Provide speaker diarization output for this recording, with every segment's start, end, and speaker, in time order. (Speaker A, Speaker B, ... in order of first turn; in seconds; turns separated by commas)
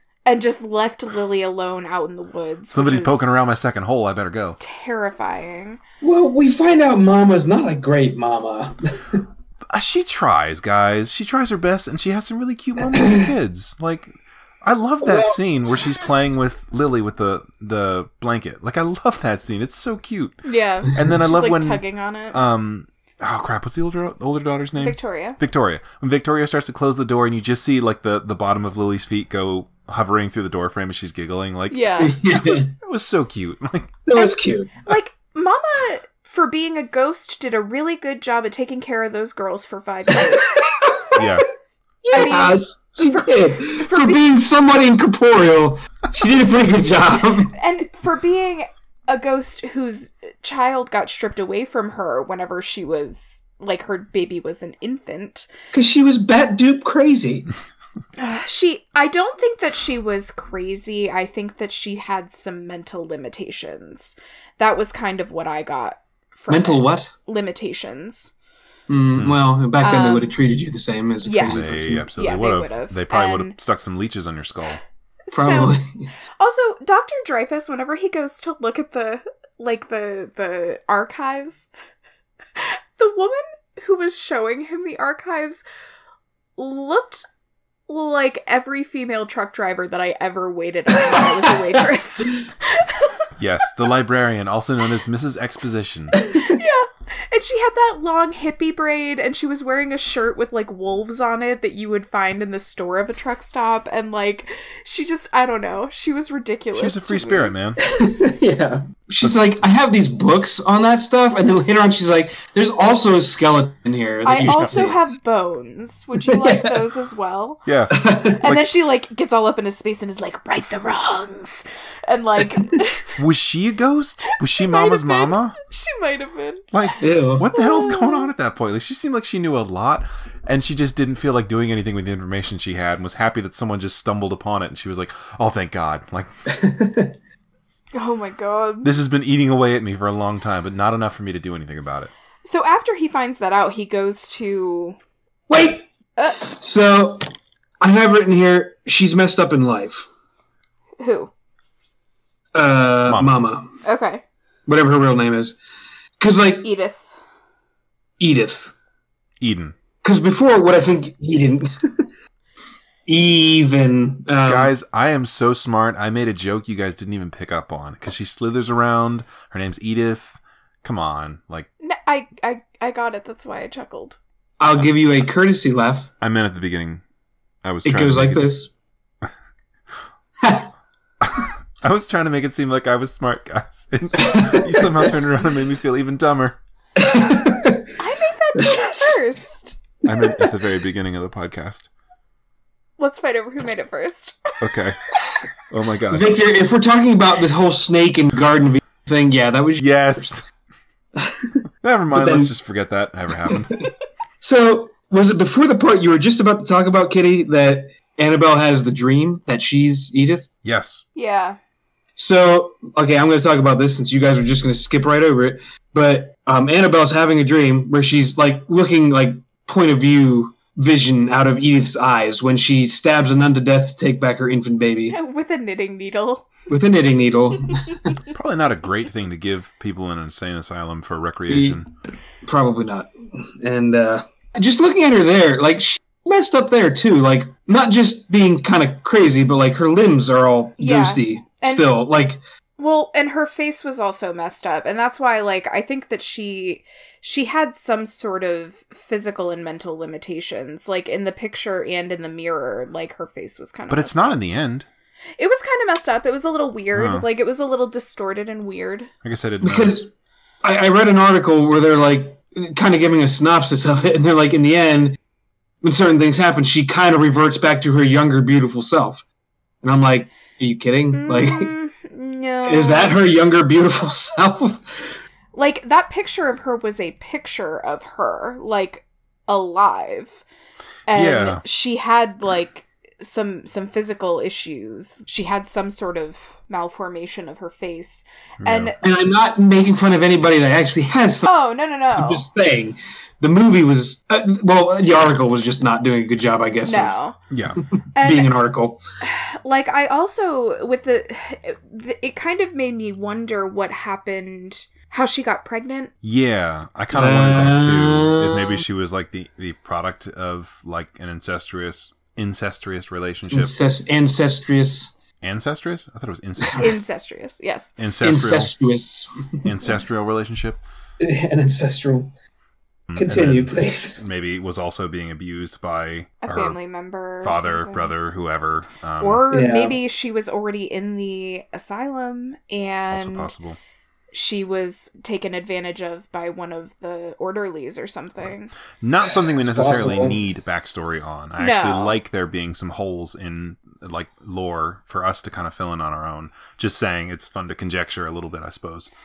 Speaker A: 0.2-3.3, Speaker B: 2.7-4.6, Speaker A: 4.6-5.8, Speaker C: 6.0-9.2, Speaker B: 9.7-14.1, Speaker C: 12.9-13.3, Speaker B: 14.6-34.0, Speaker C: 15.0-15.4, Speaker A: 20.4-22.4, Speaker A: 24.8-25.4, Speaker A: 31.7-32.4, Speaker C: 32.0-32.7, Speaker C: 34.0-34.7, Speaker A: 34.1-40.7, Speaker C: 40.2-41.3, Speaker B: 41.1-41.5, Speaker C: 42.0-47.5, Speaker A: 42.1-44.2, Speaker A: 47.5-55.5, Speaker C: 55.7-57.5, Speaker A: 58.2-68.3, Speaker C: 66.5-67.1, Speaker C: 68.9-72.1, Speaker A: 69.8-70.3, Speaker A: 71.2-73.5, Speaker B: 71.5-74.8, Speaker A: 75.3-75.8, Speaker C: 75.3-76.1, Speaker A: 76.4-81.7, Speaker A: 82.5-85.6, Speaker A: 86.6-87.2, Speaker A: 87.9-93.3, Speaker C: 91.0-91.3, Speaker B: 93.4-96.2, Speaker A: 96.3-107.5, Speaker B: 106.7-107.8, Speaker C: 107.8-115.0, Speaker A: 114.2-117.6, Speaker B: 114.4-114.8, Speaker C: 116.2-116.7, Speaker B: 117.7-118.7, Speaker C: 117.9-118.4, Speaker A: 118.4-123.1, Speaker B: 123.2-125.6, Speaker A: 124.3-127.0, Speaker B: 126.7-136.3, Speaker C: 127.0-127.5, Speaker A: 127.5-128.3, Speaker C: 136.5-137.1, Speaker A: 137.9-138.9, Speaker B: 138.8-142.1, Speaker A: 142.4-145.0, Speaker C: 145.5-145.9, Speaker A: 146.2-146.4, Speaker C: 146.4-147.2, Speaker C: 147.8-150.1, Speaker A: 151.0-151.3, Speaker C: 152.5-153.7, Speaker B: 153.1-153.3, Speaker A: 153.8-154.2, Speaker C: 154.7-155.6, Speaker C: 156.2-156.7, Speaker A: 156.6-157.1, Speaker C: 158.2-158.7, Speaker B: 159.4-159.8, Speaker C: 160.0-162.1, Speaker C: 163.1-164.7, Speaker B: 164.4-171.7, Speaker A: 171.8-174.2, Speaker C: 174.6-176.1, Speaker B: 176.2-177.0, Speaker B: 177.6-178.5, Speaker C: 177.8-178.7, Speaker C: 180.4-180.7, Speaker B: 181.2-186.6, Speaker C: 184.2-185.1, Speaker C: 187.0-187.9, Speaker A: 188.0-189.8, Speaker C: 188.5-189.2, Speaker B: 190.1-191.9, Speaker A: 193.0-194.4, Speaker B: 194.6-195.0, Speaker B: 195.7-196.4, Speaker C: 196.1-200.3, Speaker B: 199.8-200.4, Speaker C: 201.2-201.6, Speaker B: 201.8-203.8, Speaker C: 202.1-202.5, Speaker C: 204.4-210.5, Speaker B: 210.6-211.0, Speaker A: 211.1-211.6, Speaker C: 212.2-225.2, Speaker A: 225.1-226.5, Speaker C: 226.7-228.1, Speaker B: 228.3-231.9, Speaker C: 231.5-231.8, Speaker C: 232.4-242.4, Speaker A: 240.8-241.9, Speaker A: 242.8-254.4, Speaker B: 253.9-254.9, Speaker A: 255.4-259.1, Speaker B: 256.9-257.2, Speaker B: 259.2-260.0, Speaker C: 259.6-260.1, Speaker C: 260.6-265.2, Speaker C: 265.8-269.2, Speaker C: 269.8-271.7, Speaker A: 271.1-273.2, Speaker C: 272.6-275.2, Speaker A: 275.5-280.4, Speaker A: 281.1-289.0, Speaker B: 281.1-281.6, Speaker B: 288.6-288.9, Speaker C: 289.0-291.5, Speaker A: 291.4-292.5, Speaker C: 292.1-297.1, Speaker A: 296.9-297.4, Speaker B: 297.5-297.8, Speaker C: 298.0-299.0, Speaker A: 298.1-298.5, Speaker A: 299.2-306.1, Speaker B: 306.2-313.7, Speaker C: 307.1-308.8, Speaker C: 313.5-315.1, Speaker B: 315.4-317.0, Speaker A: 316.8-317.9, Speaker B: 318.0-318.7, Speaker C: 318.2-319.8, Speaker B: 319.6-320.8, Speaker C: 321.2-322.3, Speaker B: 323.1-326.8, Speaker C: 323.2-324.2, Speaker A: 326.4-328.1, Speaker B: 327.4-329.4, Speaker A: 329.2-333.5, Speaker C: 329.5-330.0, Speaker B: 333.1-333.8, Speaker A: 334.3-338.7, Speaker B: 339.0-349.1, Speaker C: 339.6-340.4, Speaker A: 341.6-342.2